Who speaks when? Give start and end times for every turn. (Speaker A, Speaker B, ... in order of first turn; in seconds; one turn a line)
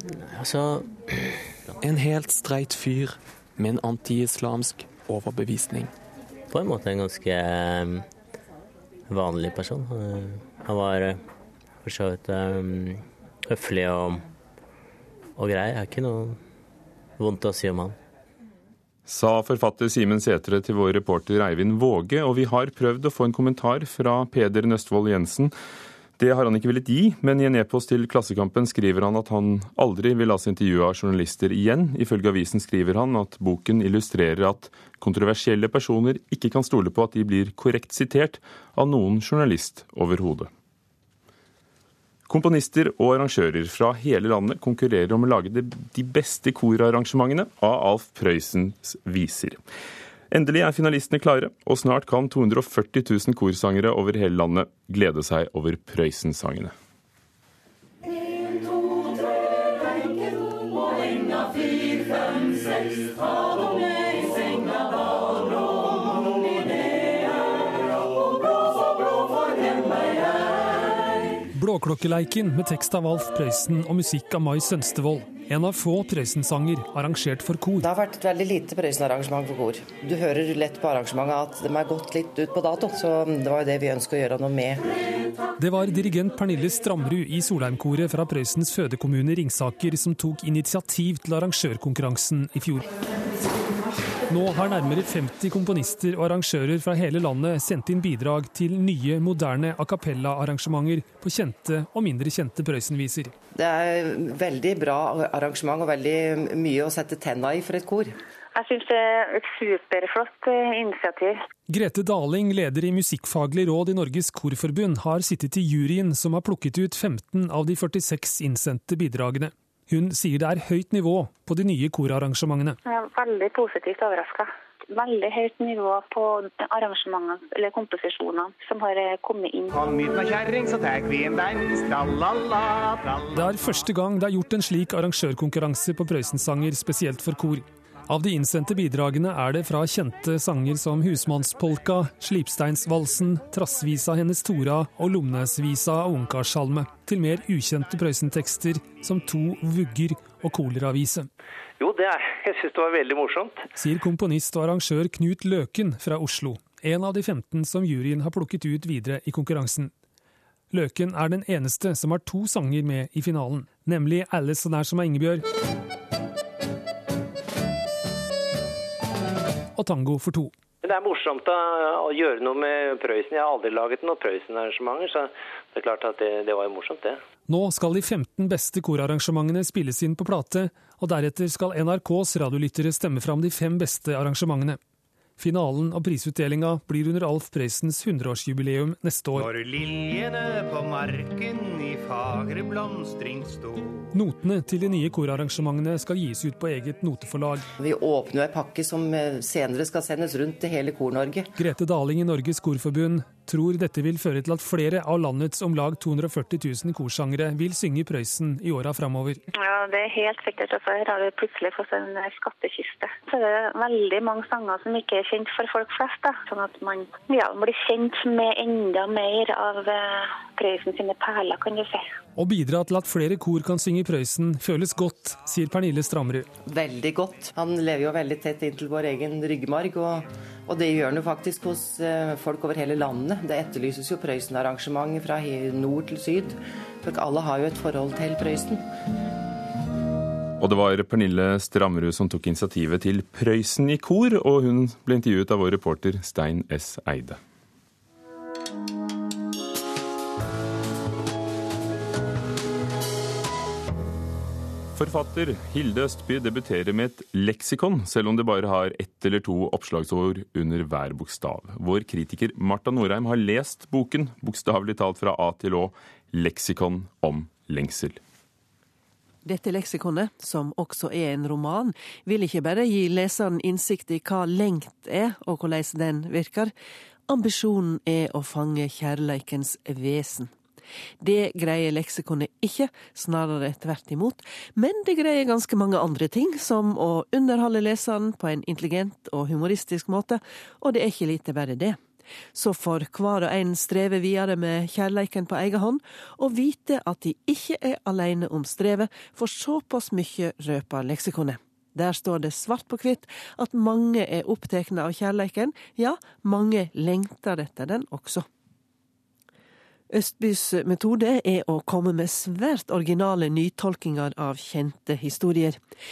Speaker A: 0.2-1.7
Speaker B: 1.8-5.9
Speaker A: 6.5-8.1
Speaker A: 9.1-11.2
Speaker A: 11.8-14.2
Speaker A: 15.3-16.4
Speaker A: 17.2-17.9
Speaker C: 19.1-25.5
Speaker C: 26.2-40.5
Speaker C: 42.3-49.6
Speaker C: 50.3-56.7
Speaker D: 71.5-77.8
Speaker E: 77.8-84.8
Speaker D: 85.6-92.8
Speaker D: 94.3-103.3
Speaker E: 103.5-108.1
Speaker F: 108.5-111.4
Speaker D: 111.7-122.8
Speaker F: 122.8-129.9
Speaker G: 130.0-132.4
Speaker D: 133.3-151.3
Speaker H: 151.8-153.7
Speaker D: 153.8-159.9
Speaker D: 160.7-165.4
Speaker D: 169.8-170.5
Speaker H: 170.8-177.2
Speaker D: 177.5-184.8
Speaker D: 185.4-189.5
Speaker G: 191.0-191.6
Speaker G: 192.6-193.5
Speaker D: 194.1-197.6
Speaker E: 197.8-201.5
Speaker D: 201.6-209.4
Speaker F: 209.5-222.1
Speaker D: 222.3-226.5
Speaker E: 226.7-238.8
Speaker C: 240.6-247.4
Speaker C: 254.9-268.2
Speaker I: 269.4-276.7
Speaker I: 277.3-280.5
Speaker I: 281.2-292.0
Speaker I: 292.5-308.4
Speaker I: 310.1-315.8